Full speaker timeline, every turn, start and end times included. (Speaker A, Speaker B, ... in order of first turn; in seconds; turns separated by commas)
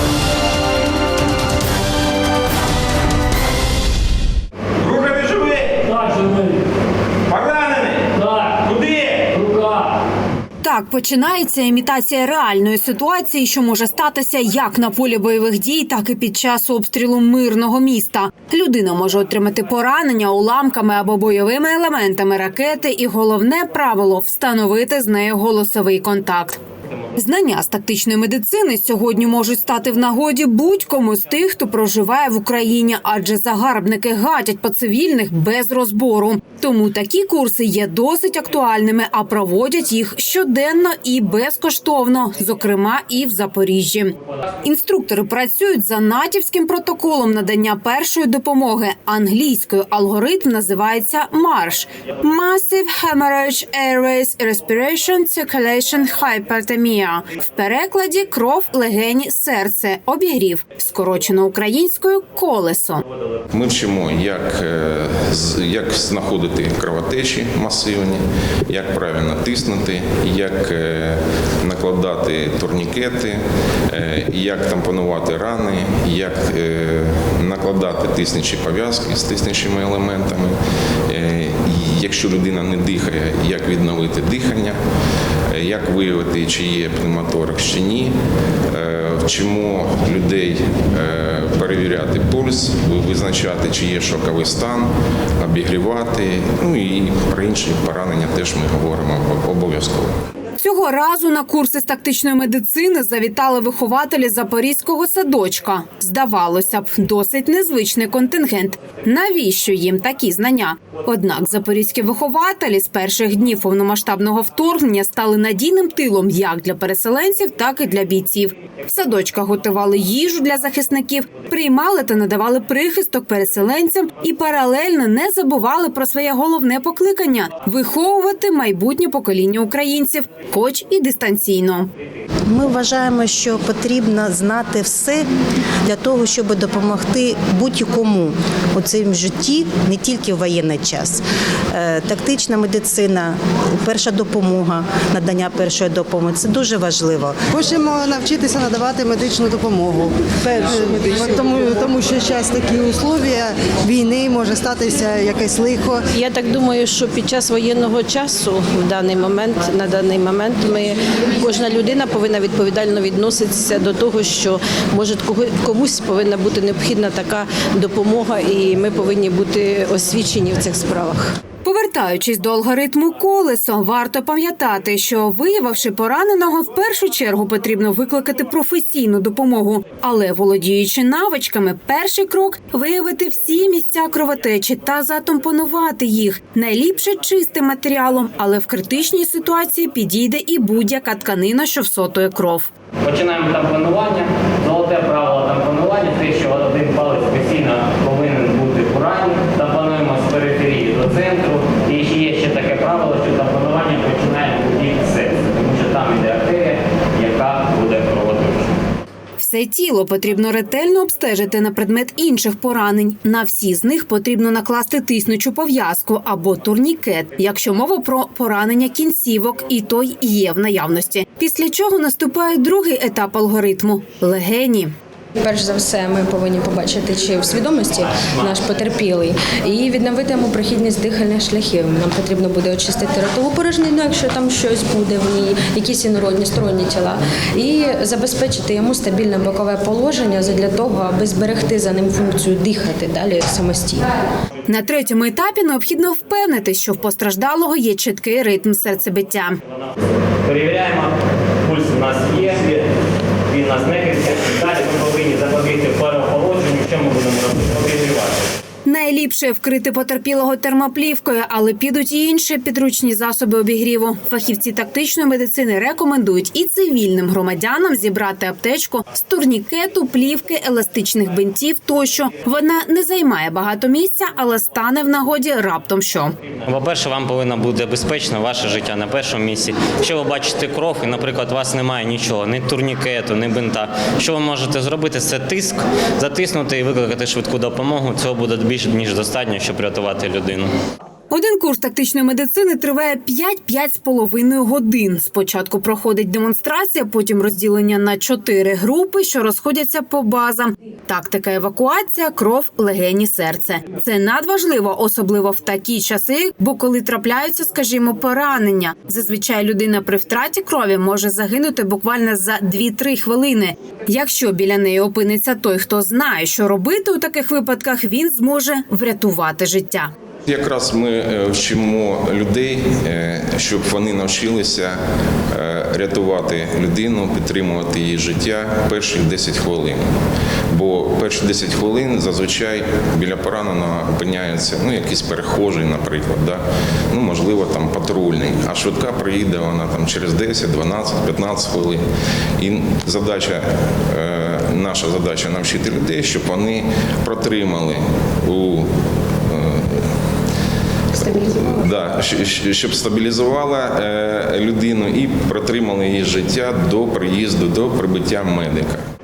Speaker A: 4.8-5.6, Speaker B: 5.0-6.6, Speaker A: 7.3-8.0, Speaker B: 7.6-9.9, Speaker C: 10.6-26.6, Speaker C: 27.2-63.0, Speaker A: 63.5-80.6, Speaker A: 81.1-84.8, Speaker A: 85.5-88.1, Speaker A: 88.7-100.2, Speaker C: 100.6-131.9, Speaker D: 132.5-135.2, Speaker D: 135.8-147.4, Speaker E: 147.5-156.0, Speaker F: 156.1-171.3, Speaker C: 171.6-192.7, Speaker B: 193.0-208.8, Speaker C: 209.4-224.9, Speaker G: 225.4-244.1, Speaker C: 244.7-249.6, Speaker B: 250.4-252.9, Speaker B: 253.5-258.4, Speaker C: 258.9-276.4, Speaker B: 276.7-290.7, Speaker C: 291.3-320.1, Speaker A: 320.5-325.0, Speaker A: 325.5-330.0, Speaker A: 330.7-342.0, Speaker A: 342.6-348.9, Speaker A: 349.5-350.1, Speaker G: 351.2-351.6, Speaker A: 351.3-359.1